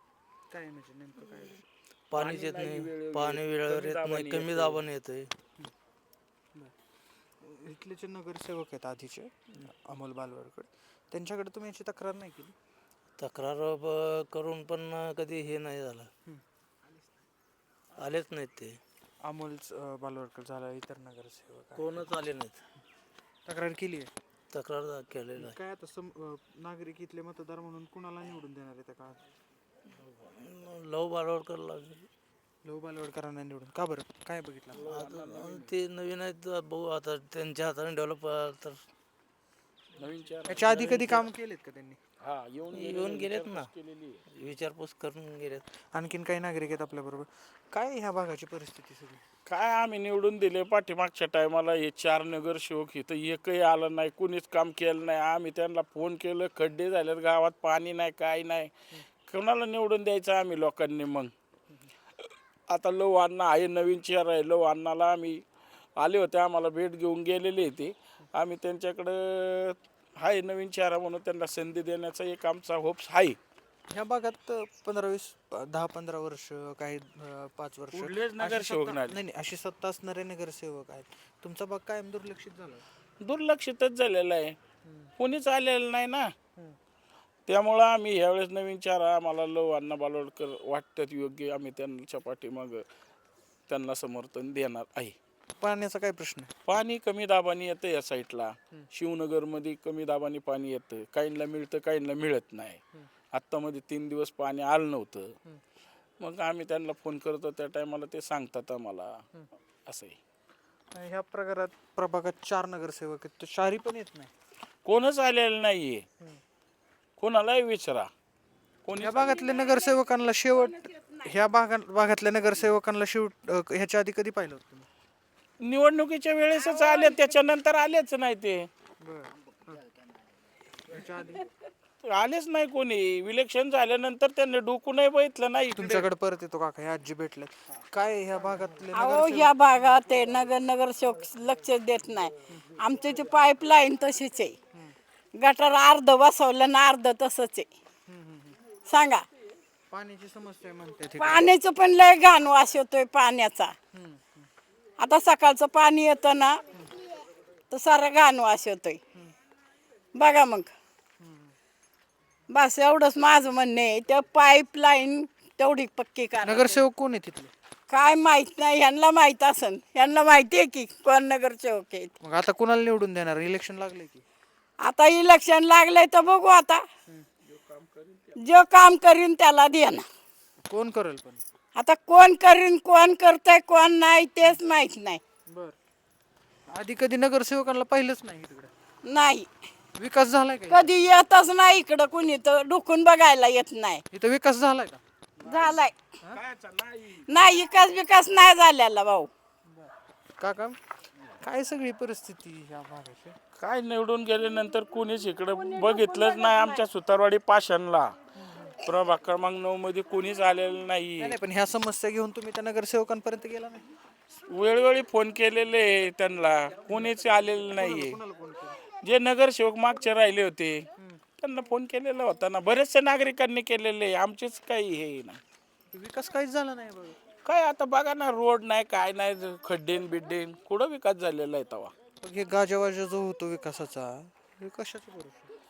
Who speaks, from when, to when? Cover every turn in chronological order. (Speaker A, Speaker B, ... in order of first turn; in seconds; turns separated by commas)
Speaker A: 0.5-1.6, Speaker B: 2.1-5.3, Speaker C: 2.1-4.8, Speaker A: 7.4-12.5, Speaker B: 13.2-16.1, Speaker B: 18.0-18.8, Speaker A: 19.2-22.1, Speaker B: 21.8-22.6, Speaker A: 23.4-24.1, Speaker B: 24.5-25.5, Speaker A: 25.4-29.2, Speaker B: 30.0-32.1, Speaker A: 32.6-34.8, Speaker C: 34.7-35.7, Speaker B: 34.9-38.8, Speaker C: 40.0-41.1, Speaker A: 40.4-42.0, Speaker B: 40.7-41.2, Speaker C: 42.2-44.2, Speaker B: 42.7-43.7, Speaker B: 44.3-45.6, Speaker A: 45.9-49.2, Speaker C: 49.5-58.7, Speaker C: 59.3-61.3, Speaker C: 62.2-65.4, Speaker C: 66.0-73.4, Speaker A: 73.9-82.8, Speaker C: 77.9-79.2, Speaker C: 83.2-84.5, Speaker A: 84.8-85.1, Speaker C: 85.2-86.3, Speaker C: 87.5-92.8, Speaker C: 93.7-95.2, Speaker A: 95.6-96.5, Speaker C: 96.7-102.8, Speaker C: 103.3-105.3, Speaker C: 106.2-109.2, Speaker C: 109.9-110.2, Speaker A: 110.9-114.3, Speaker C: 114.8-116.0, Speaker C: 117.2-118.1, Speaker C: 118.8-119.5, Speaker A: 119.0-124.9, Speaker C: 125.6-128.7, Speaker A: 129.0-129.8, Speaker A: 130.8-131.5, Speaker C: 132.0-136.1, Speaker A: 135.8-139.5, Speaker D: 138.9-144.5, Speaker D: 145.3-147.7, Speaker A: 148.1-148.6, Speaker D: 148.8-149.2, Speaker A: 149.9-151.5, Speaker D: 151.2-153.7, Speaker A: 153.9-154.5, Speaker D: 155.0-156.6, Speaker D: 157.7-159.0, Speaker D: 160.1-160.7, Speaker A: 161.2-161.5, Speaker D: 162.5-166.8, Speaker A: 166.4-167.5, Speaker D: 167.9-172.1, Speaker A: 172.2-174.2, Speaker D: 174.8-176.8, Speaker C: 177.4-178.3, Speaker D: 178.3-180.1, Speaker A: 180.6-181.4, Speaker D: 181.8-185.2, Speaker A: 185.5-185.8, Speaker A: 186.7-188.7, Speaker D: 189.0-189.5, Speaker A: 189.9-191.2, Speaker D: 190.7-194.0, Speaker A: 194.1-195.0, Speaker D: 195.4-195.9, Speaker C: 196.3-197.3, Speaker D: 197.3-199.3, Speaker A: 199.7-200.8, Speaker A: 201.4-203.4, Speaker C: 203.6-208.1, Speaker A: 208.4-208.7, Speaker C: 208.8-211.4, Speaker A: 211.2-213.8, Speaker C: 214.5-218.2, Speaker A: 217.8-218.8, Speaker C: 219.0-220.8, Speaker C: 221.4-225.4, Speaker A: 225.9-227.2, Speaker C: 227.4-231.9, Speaker A: 232.2-235.4